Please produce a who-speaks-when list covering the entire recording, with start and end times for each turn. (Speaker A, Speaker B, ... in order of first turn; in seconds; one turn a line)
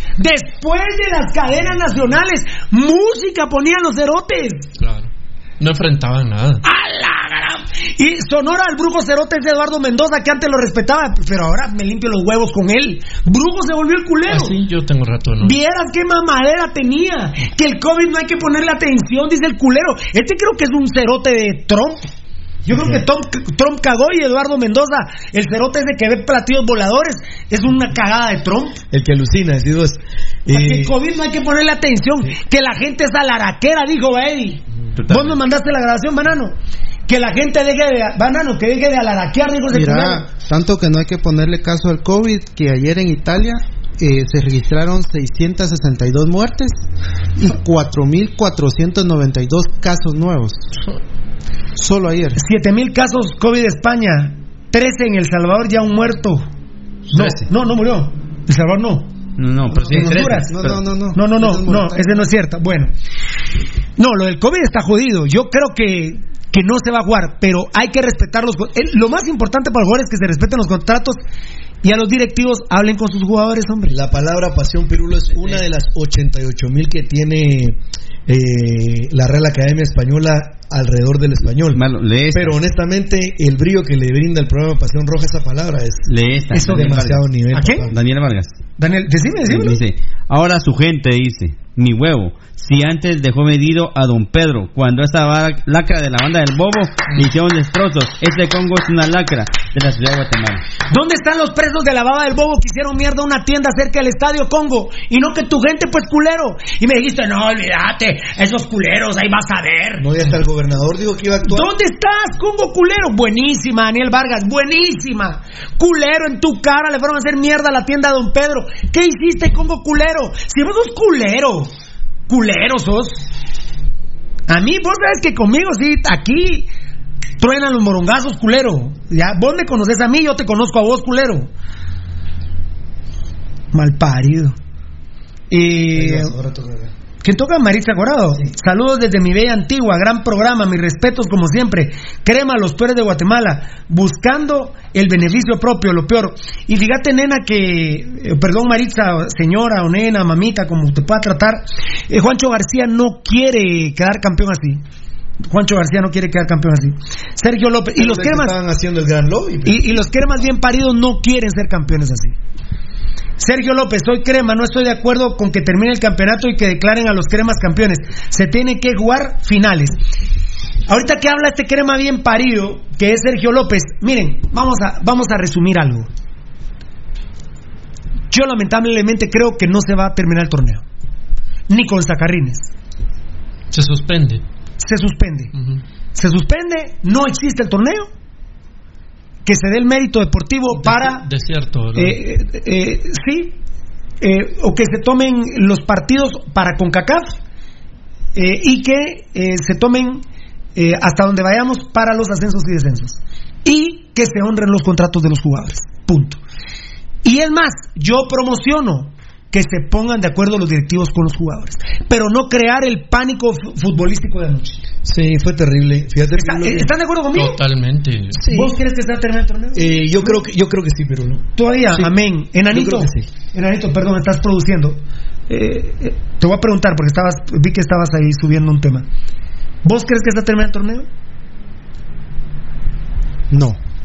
Speaker A: 0.2-4.7
Speaker B: 4.8-6.6
Speaker A: 6.6-14.5
Speaker B: 14.3-15.6
Speaker A: 15.4-22.0
Speaker A: 22.7-28.8
Speaker C: 22.7-23.0
Speaker C: 28.9-31.0
Speaker A: 30.5-36.5
Speaker D: 35.0-35.4
Speaker A: 37.1-40.2
Speaker E: 39.7-46.8
Speaker E: 47.4-50.7
Speaker E: 51.8-52.4
Speaker A: 52.4-56.5
Speaker A: 57.1-59.1
Speaker D: 57.1-57.4
Speaker D: 59.4-60.9
Speaker E: 59.7-62.3
Speaker A: 59.9-60.5
Speaker A: 61.1-62.9
Speaker A: 64.0-71.2
Speaker A: 71.8-74.0
Speaker C: 73.9-88.0
Speaker D: 81.7-82.6
Speaker D: 86.1-87.3
Speaker A: 86.5-87.0
Speaker A: 87.5-87.9
Speaker D: 87.9-88.6
Speaker A: 88.8-89.8
Speaker D: 89.5-100.6
Speaker A: 100.9-110.0
Speaker C: 110.0-111.7
Speaker A: 111.4-121.7
Speaker A: 122.3-123.2
Speaker A: 124.5-126.7
Speaker A: 127.4-131.5
Speaker A: 133.7-134.6
Speaker A: 135.5-136.3
Speaker C: 135.9-136.9
Speaker A: 137.2-154.8
Speaker A: 155.5-158.6
Speaker C: 158.0-159.9
Speaker A: 159.7-162.3
Speaker A: 163.4-170.0
Speaker A: 170.9-176.1
Speaker A: 178.3-180.8
Speaker A: 181.7-182.7
Speaker B: 183.7-184.4
Speaker A: 184.8-185.5
Speaker B: 185.6-185.8
Speaker A: 186.2-188.1
Speaker A: 189.4-191.2
Speaker B: 190.8-192.2
Speaker A: 192.0-193.6
Speaker A: 194.2-197.4
Speaker A: 198.3-200.2
Speaker A: 200.8-206.4
Speaker A: 207.2-214.8
Speaker C: 215.0-216.9
Speaker A: 216.3-217.6
Speaker B: 217.3-218.4
Speaker C: 218.3-218.8
Speaker A: 218.5-220.4
Speaker C: 219.8-222.2
Speaker A: 221.6-229.1
Speaker C: 222.7-223.3
Speaker A: 229.8-231.1
Speaker E: 233.5-233.8